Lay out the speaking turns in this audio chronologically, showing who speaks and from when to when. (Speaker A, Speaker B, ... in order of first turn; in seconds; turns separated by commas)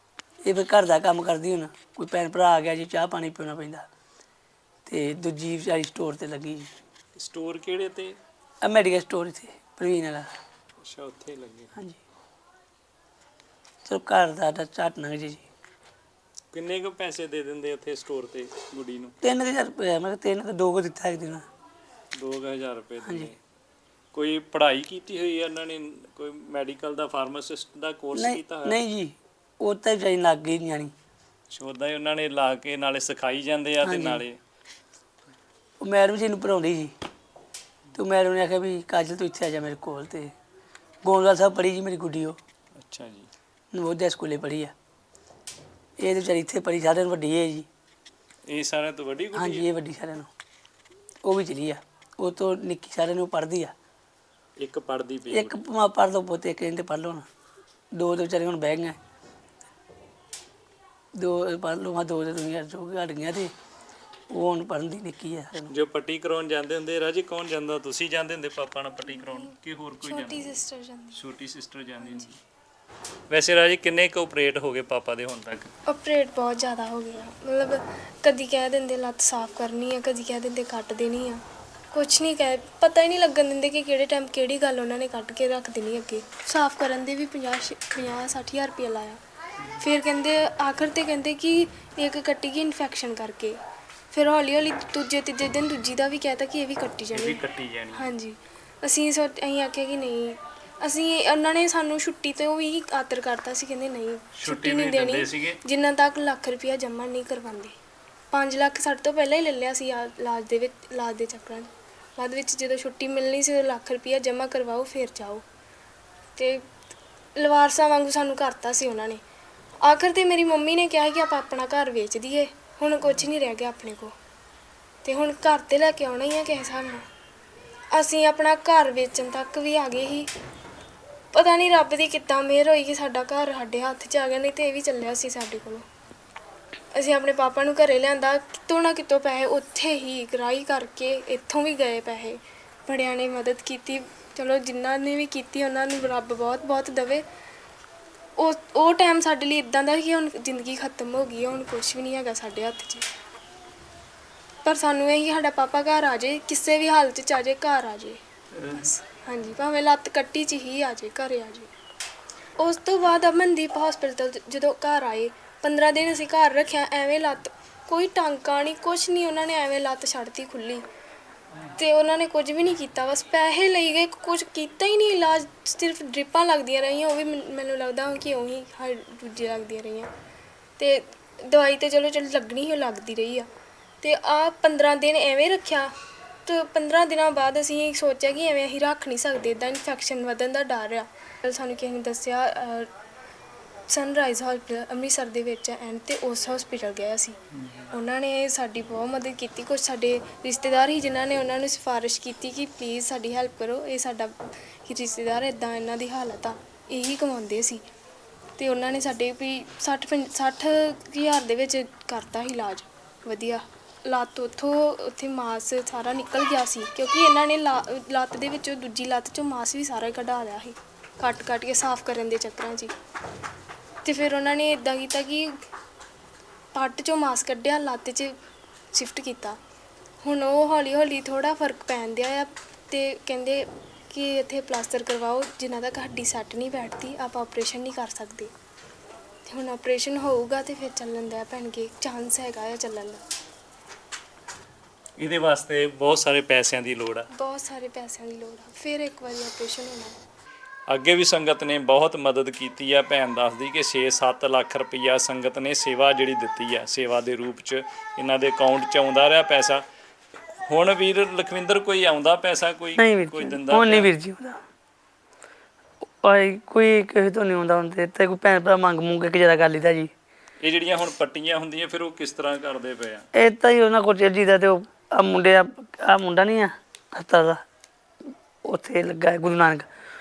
Speaker A: 0.4-3.9, Speaker A: 4.8-6.7, Speaker B: 7.2-8.2, Speaker A: 8.6-10.3, Speaker B: 10.8-11.7, Speaker A: 13.8-15.4, Speaker B: 16.5-19.1, Speaker A: 19.2-21.4, Speaker B: 22.1-23.4, Speaker A: 23.0-23.3, Speaker B: 24.1-28.8, Speaker A: 28.1-30.9, Speaker B: 31.5-34.4, Speaker A: 33.8-34.2, Speaker A: 35.8-36.9, Speaker A: 37.9-40.3, Speaker A: 41.0-42.4, Speaker B: 42.8-43.3, Speaker A: 43.7-44.7, Speaker A: 46.0-47.7, Speaker B: 48.5-49.7, Speaker A: 49.3-50.3, Speaker A: 51.2-53.7, Speaker B: 54.6-55.6, Speaker A: 55.3-57.3, Speaker A: 57.9-59.0, Speaker A: 61.1-63.5, Speaker A: 64.3-65.7, Speaker B: 65.7-70.5, Speaker C: 69.1-69.5, Speaker C: 70.0-71.2, Speaker B: 71.1-72.3, Speaker C: 72.0-72.3, Speaker B: 73.3-75.7, Speaker C: 75.9-89.2, Speaker C: 89.8-93.6, Speaker C: 94.1-97.4, Speaker B: 97.1-98.0, Speaker C: 97.9-107.7, Speaker B: 104.3-105.6, Speaker C: 108.3-115.4, Speaker C: 116.4-116.6, Speaker C: 117.3-119.2, Speaker C: 119.8-124.1, Speaker C: 125.0-127.0, Speaker C: 127.9-130.3, Speaker C: 131.3-135.8, Speaker C: 136.9-147.2, Speaker C: 148.4-153.1, Speaker C: 154.6-158.2, Speaker B: 158.6-158.9, Speaker C: 158.7-161.7, Speaker C: 162.6-170.8, Speaker C: 171.8-180.1, Speaker C: 180.8-183.5, Speaker C: 184.0-185.9, Speaker C: 186.4-192.9, Speaker C: 193.9-197.4, Speaker B: 197.6-197.9, Speaker C: 197.9-207.8, Speaker C: 208.6-222.9, Speaker C: 224.0-225.5, Speaker C: 226.7-228.3, Speaker C: 228.9-229.6, Speaker C: 230.2-238.5, Speaker C: 239.5-243.2, Speaker B: 245.2-247.3, Speaker C: 247.3-250.2, Speaker B: 250.9-259.8, Speaker B: 260.7-264.1, Speaker A: 263.0-264.6, Speaker A: 266.2-270.1, Speaker B: 270.6-273.2, Speaker A: 273.3-277.6, Speaker A: 278.6-279.9